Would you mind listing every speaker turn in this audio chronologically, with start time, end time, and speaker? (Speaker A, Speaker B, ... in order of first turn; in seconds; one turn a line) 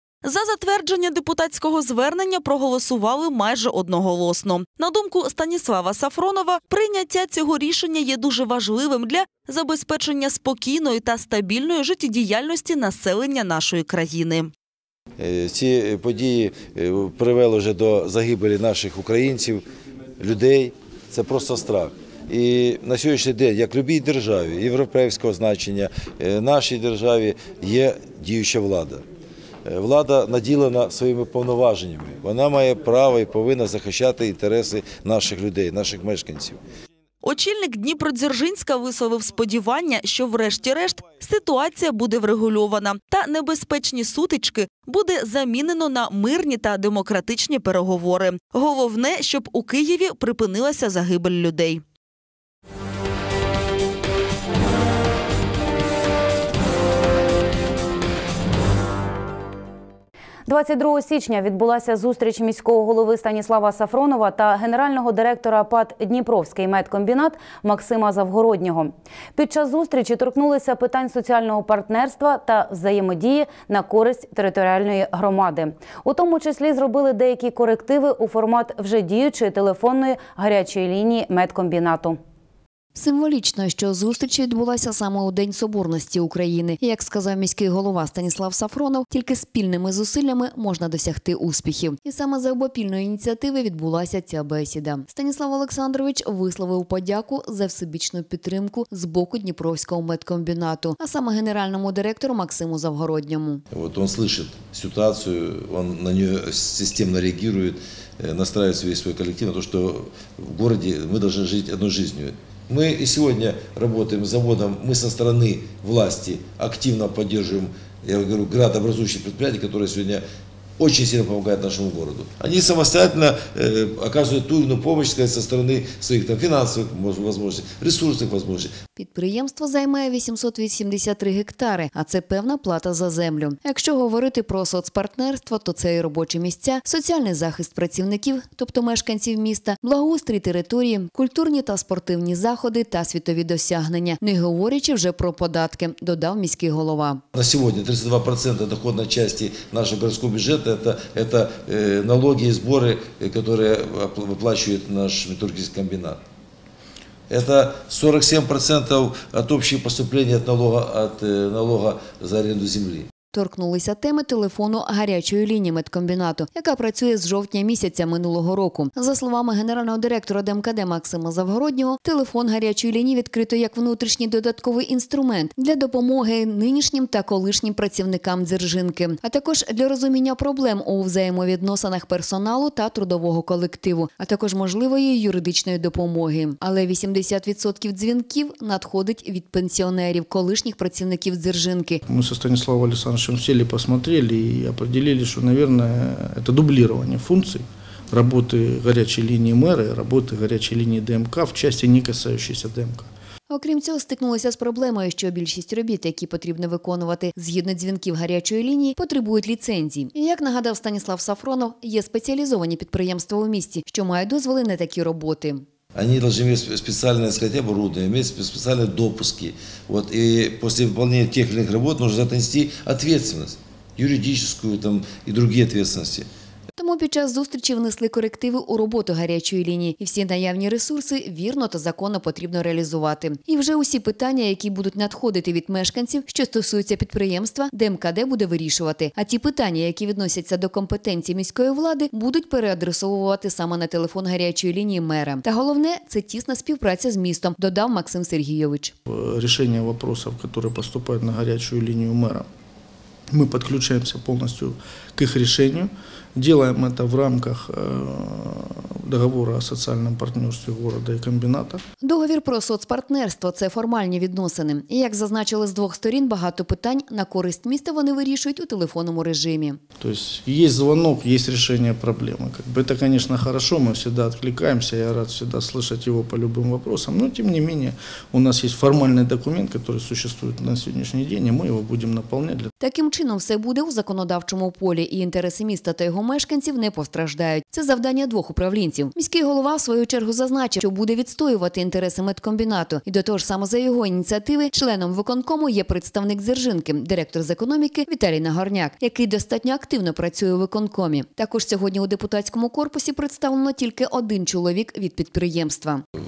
Speaker A: 0.3-14.5
Speaker B: 15.2-19.6
Speaker B: 20.2-29.1
Speaker B: 29.7-36.6
Speaker A: 37.2-51.8
Speaker C: 60.5-82.2
Speaker D: 83.0-103.6
Speaker B: 103.7-120.2
Speaker B: 120.8-128.7
Speaker D: 129.0-147.2
Speaker B: 147.3-156.2
Speaker B: 157.3-163.1
Speaker D: 163.3-192.0
Speaker E: 192.1-203.1
Speaker D: 203.5-215.6
Speaker B: 215.9-226.3
Speaker D: 226.8-248.9
Speaker E: 249.1-252.5
Speaker E: 253.3-261.8
Speaker D: 262.0-269.8
Speaker E: 270.0-282.7
Speaker D: 282.8-306.0